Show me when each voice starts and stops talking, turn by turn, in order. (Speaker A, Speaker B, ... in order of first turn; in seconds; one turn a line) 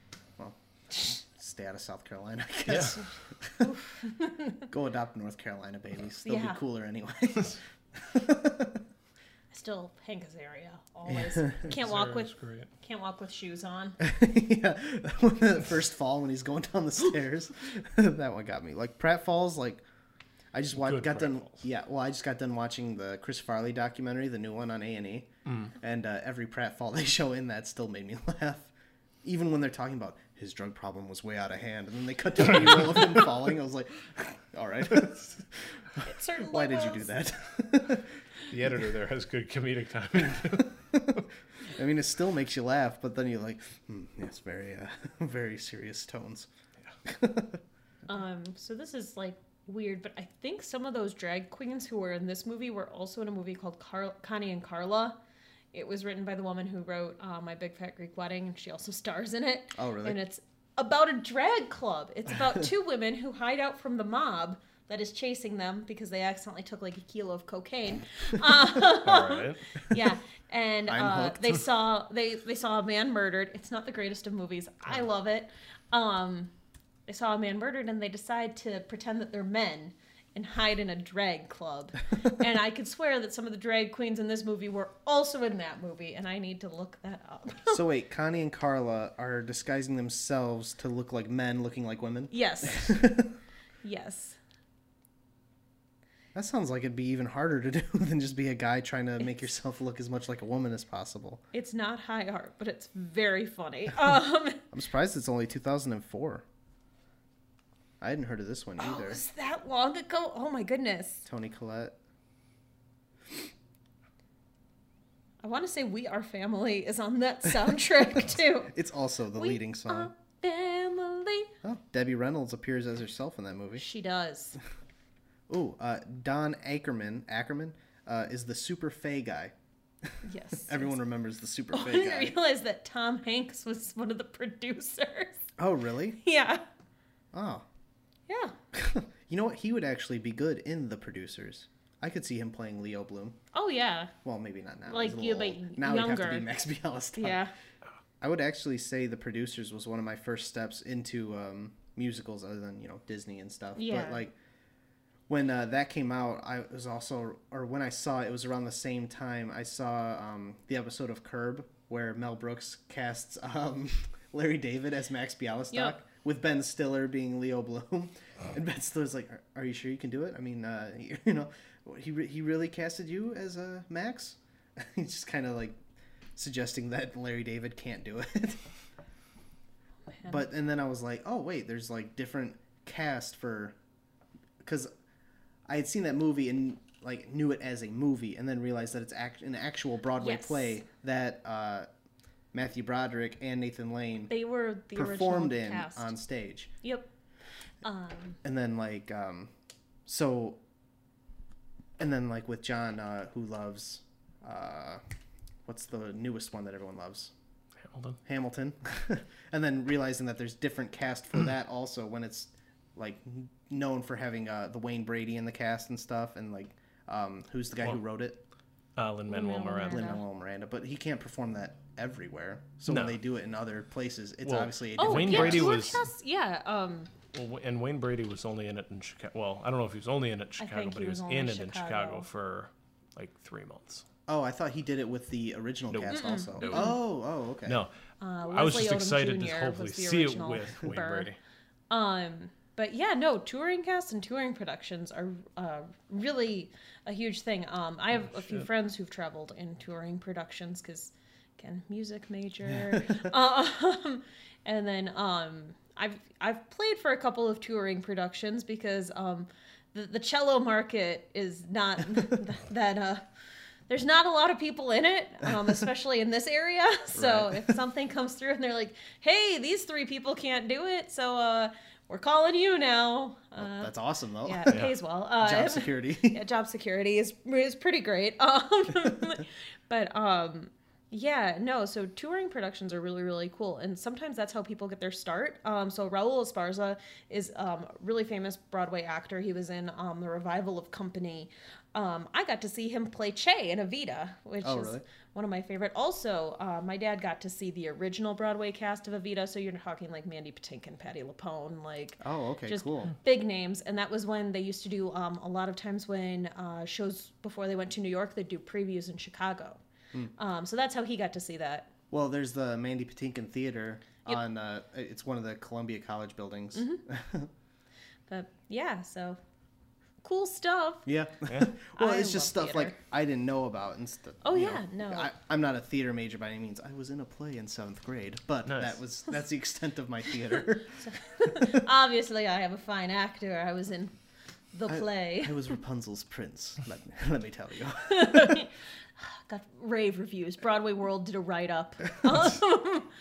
Speaker A: 0.4-3.7
Speaker B: 2.7-3.0
Speaker C: 3.6-4.6
Speaker A: 4.7-8.8
Speaker C: 6.2-6.6
Speaker C: 9.5-14.0
Speaker A: 11.1-11.7
Speaker B: 11.7-12.7
Speaker A: 14.0-19.8
Speaker A: 20.5-28.7
Speaker B: 20.8-21.6
Speaker B: 25.5-25.7
Speaker A: 29.2-38.1
Speaker C: 36.0-37.1
Speaker B: 38.5-40.7
Speaker A: 40.5-46.5
Speaker A: 47.1-47.6
Speaker C: 48.1-55.2
Speaker C: 55.7-76.5
Speaker A: 59.8-60.2
Speaker B: 69.0-69.6
Speaker A: 70.9-71.6
Speaker C: 77.1-87.8
Speaker A: 87.7-93.3
Speaker C: 92.3-93.1
Speaker C: 93.8-94.4
Speaker A: 96.3-101.4
Speaker C: 101.5-104.6
Speaker A: 104.7-106.4
Speaker A: 108.0-109.2
Speaker C: 108.8-111.3
Speaker A: 111.3-112.0
Speaker C: 115.4-118.7
Speaker A: 118.7-120.1
Speaker C: 119.3-121.5
Speaker A: 121.6-123.8
Speaker C: 123.8-124.6
Speaker A: 125.5-129.5
Speaker C: 130.2-131.0
Speaker A: 130.7-132.4
Speaker C: 131.7-135.4
Speaker A: 135.6-136.2
Speaker C: 136.2-136.6
Speaker A: 137.3-137.7
Speaker C: 138.3-138.6
Speaker A: 138.7-143.4
Speaker C: 143.5-144.1
Speaker A: 144.2-147.4
Speaker C: 144.9-146.5
Speaker C: 147.2-147.5
Speaker A: 148.2-154.3
Speaker C: 153.8-154.2
Speaker A: 155.3-175.8
Speaker C: 165.7-166.0
Speaker A: 176.4-178.6
Speaker A: 180.2-183.8
Speaker A: 184.6-184.9
Speaker A: 185.7-191.9
Speaker C: 190.2-190.8
Speaker A: 192.5-194.3
Speaker C: 194.3-196.2
Speaker A: 194.9-196.7
Speaker C: 196.8-197.1
Speaker C: 197.8-198.4
Speaker A: 198.4-199.5
Speaker A: 200.1-200.6
Speaker A: 202.0-205.0
Speaker A: 205.7-207.3
Speaker B: 207.8-208.2
Speaker A: 208.2-218.4
Speaker B: 219.0-220.1
Speaker C: 219.3-220.2
Speaker A: 219.9-226.0
Speaker B: 222.9-223.2
Speaker B: 224.4-226.0
Speaker C: 225.0-227.1
Speaker B: 227.3-234.1
Speaker C: 230.6-232.3
Speaker A: 234.3-237.8
Speaker B: 235.9-237.0
Speaker C: 236.1-237.0
Speaker B: 237.7-237.9
Speaker C: 238.2-241.3
Speaker B: 238.5-241.4
Speaker C: 241.9-263.2
Speaker C: 263.9-309.8
Speaker A: 267.1-267.7
Speaker A: 273.6-274.9
Speaker B: 274.7-274.9
Speaker A: 275.4-276.4
Speaker A: 294.6-295.0
Speaker A: 302.2-303.1
Speaker C: 310.4-311.9
Speaker A: 312.1-317.5
Speaker C: 316.8-317.0
Speaker C: 318.3-319.4
Speaker C: 320.2-321.1
Speaker A: 321.1-331.8
Speaker C: 322.0-323.0
Speaker C: 324.4-325.3
Speaker B: 328.7-329.0
Speaker C: 331.0-334.1
Speaker C: 334.7-335.7
Speaker A: 334.9-338.6
Speaker C: 338.1-343.1